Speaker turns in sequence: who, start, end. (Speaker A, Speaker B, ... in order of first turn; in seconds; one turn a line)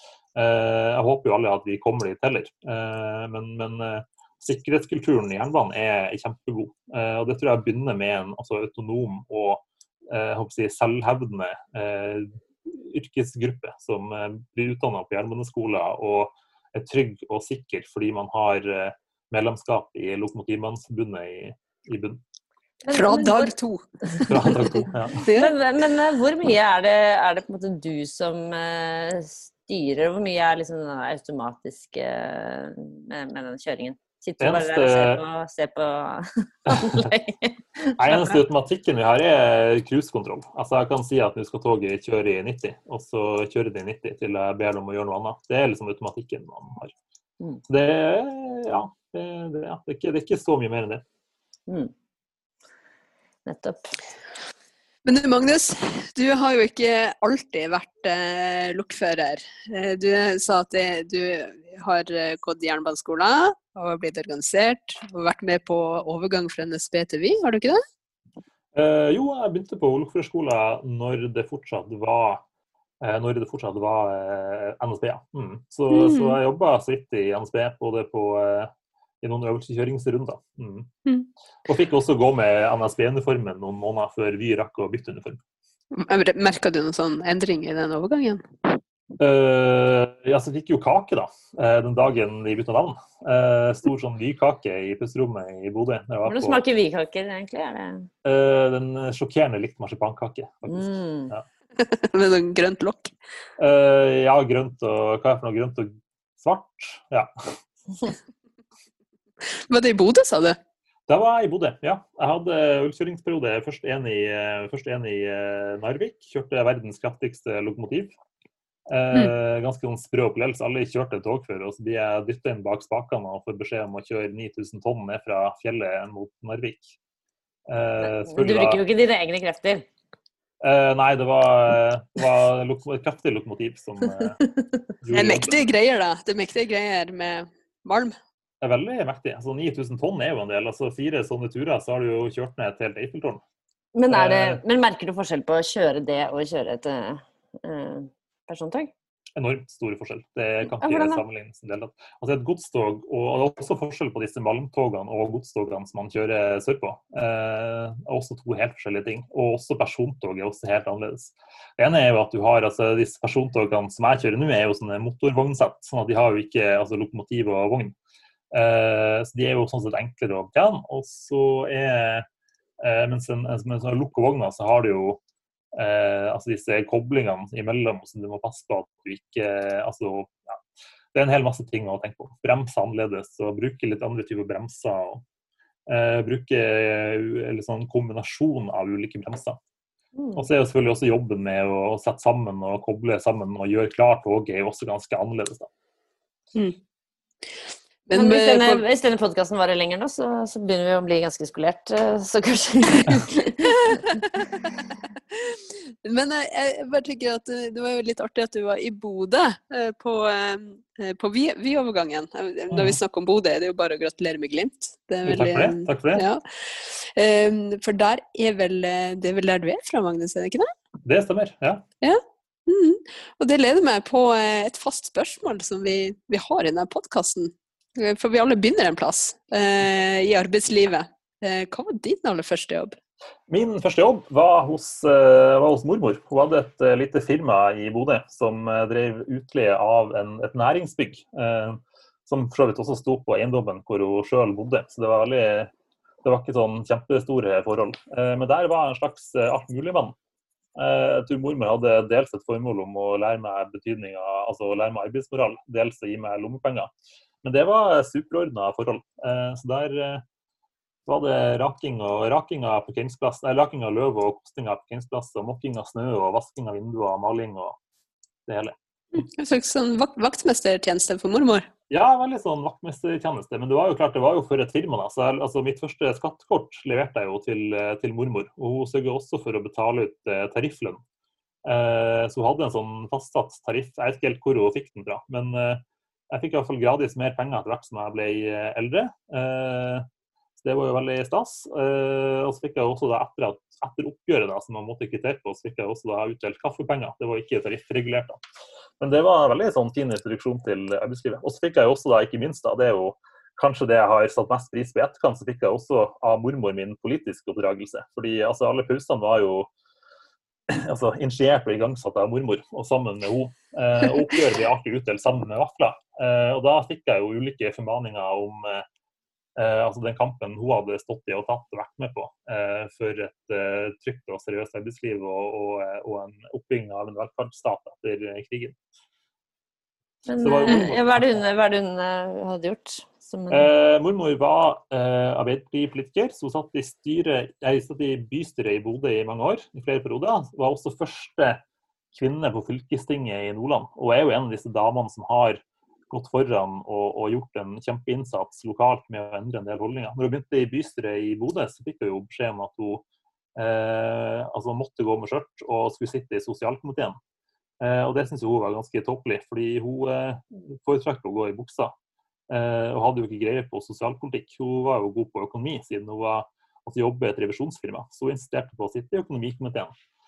Speaker A: 0.3-22.2
Speaker B: 22.8-23.5
Speaker C: 22.9-25.5
Speaker A: 24.3-25.3
Speaker B: 25.3-38.4
Speaker A: 34.4-35.2
Speaker A: 36.7-37.1
Speaker A: 38.0-47.0
Speaker A: 47.7-51.0
Speaker B: 53.5-53.9
Speaker C: 55.0-67.8
Speaker A: 68.7-72.4
Speaker A: 73.0-80.9
Speaker C: 75.9-76.4
Speaker A: 81.7-85.4
Speaker C: 85.9-88.7
Speaker A: 89.2-96.6
Speaker B: 96.3-98.1
Speaker A: 98.2-101.4
Speaker B: 100.7-101.3
Speaker C: 101.8-103.1
Speaker A: 103.6-107.5
Speaker C: 109.5-110.6
Speaker A: 111.1-118.1
Speaker A: 118.9-127.0
Speaker A: 127.7-128.8
Speaker B: 128.0-129.8
Speaker A: 130.6-134.4
Speaker B: 134.6-134.8
Speaker A: 135.0-135.6
Speaker C: 135.1-138.2
Speaker A: 138.6-143.4
Speaker B: 143.9-148.9
Speaker A: 144.1-144.6
Speaker A: 149.4-168.0
Speaker B: 150.7-151.2
Speaker A: 168.5-172.3
Speaker A: 172.8-175.2
Speaker A: 175.7-185.2
Speaker A: 185.9-189.6
Speaker B: 190.2-190.5
Speaker A: 190.4-195.7
Speaker C: 198.1-198.8
Speaker B: 198.2-204.2
Speaker C: 205.3-220.7
Speaker A: 212.7-213.0
Speaker A: 215.2-216.3
Speaker A: 221.0-221.8
Speaker C: 222.0-233.0
Speaker A: 233.5-245.7
Speaker A: 246.2-250.2
Speaker A: 250.8-256.9
Speaker A: 257.4-260.2
Speaker A: 261.1-267.8
Speaker A: 268.5-268.8
Speaker C: 269.1-271.7
Speaker A: 271.9-281.0
Speaker A: 281.6-290.1
Speaker A: 290.6-298.4
Speaker A: 299.0-309.7
Speaker A: 310.7-318.9
Speaker A: 319.6-328.8
Speaker B: 330.3-333.7
Speaker A: 330.4-331.4
Speaker A: 333.5-341.6
Speaker A: 342.1-353.0
Speaker A: 353.6-357.2
Speaker A: 357.8-361.9
Speaker A: 362.5-369.9